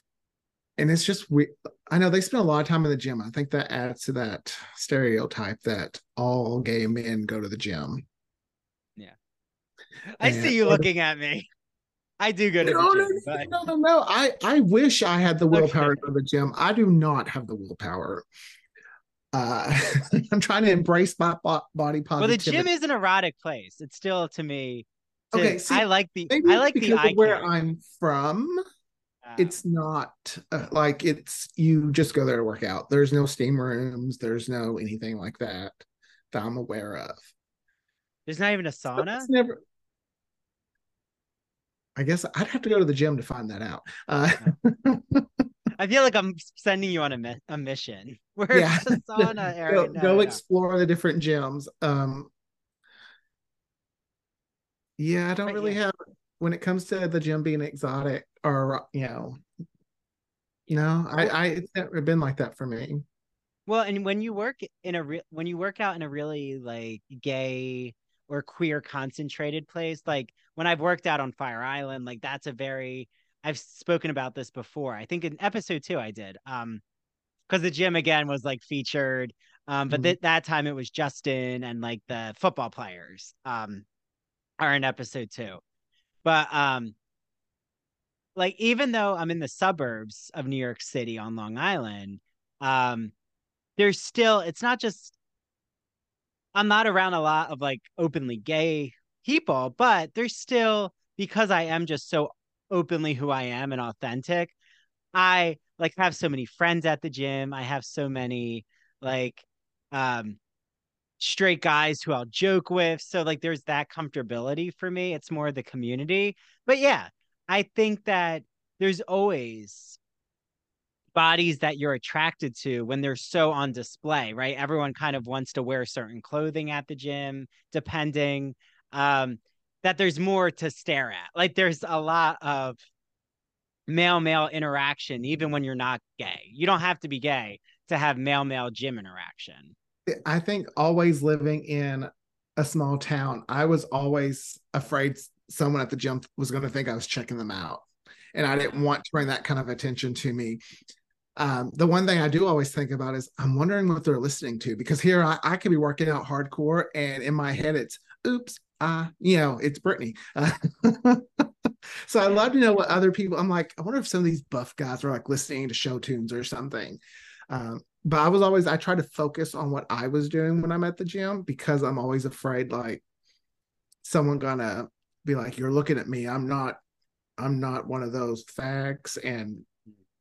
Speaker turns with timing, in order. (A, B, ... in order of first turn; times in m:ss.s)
0:00.8-0:08.0 A
0:10.2-0:11.5 B
0:10.2-0:10.8 A
0:12.2-0:13.6 B
0:12.6-0:18.2 A
0:15.5-0:16.1 B
0:19.3-0:22.7 A
0:22.2-0:27.5 B
0:25.3-0:28.6 A
0:29.2-0:29.6 B
0:29.4-0:37.3 A
0:38.3-0:39.3 B
0:39.0-0:39.6 A
0:42.0-0:45.3 A
0:45.8-0:50.4 B
0:48.5-0:52.3 A
0:55.0-0:59.4 A
0:55.5-0:55.8 B
1:00.7-1:03.1 A
1:00.7-1:01.3 B
1:03.7-1:16.8 B
1:17.5-1:23.8 B
1:19.9-1:20.2 A
1:24.6-1:25.6 B
1:26.2-1:27.0 B
1:28.4-1:33.1 B
1:33.8-1:35.2 B
1:36.6-1:44.5 B
1:45.1-1:50.4 B
1:51.2-2:00.0 B
2:01.2-2:12.8 B
2:13.9-2:19.8 B
2:20.1-2:30.6 A
2:28.6-2:28.9 B
2:31.4-2:53.0 A
2:54.0-2:56.8 A
2:57.4-2:59.7 A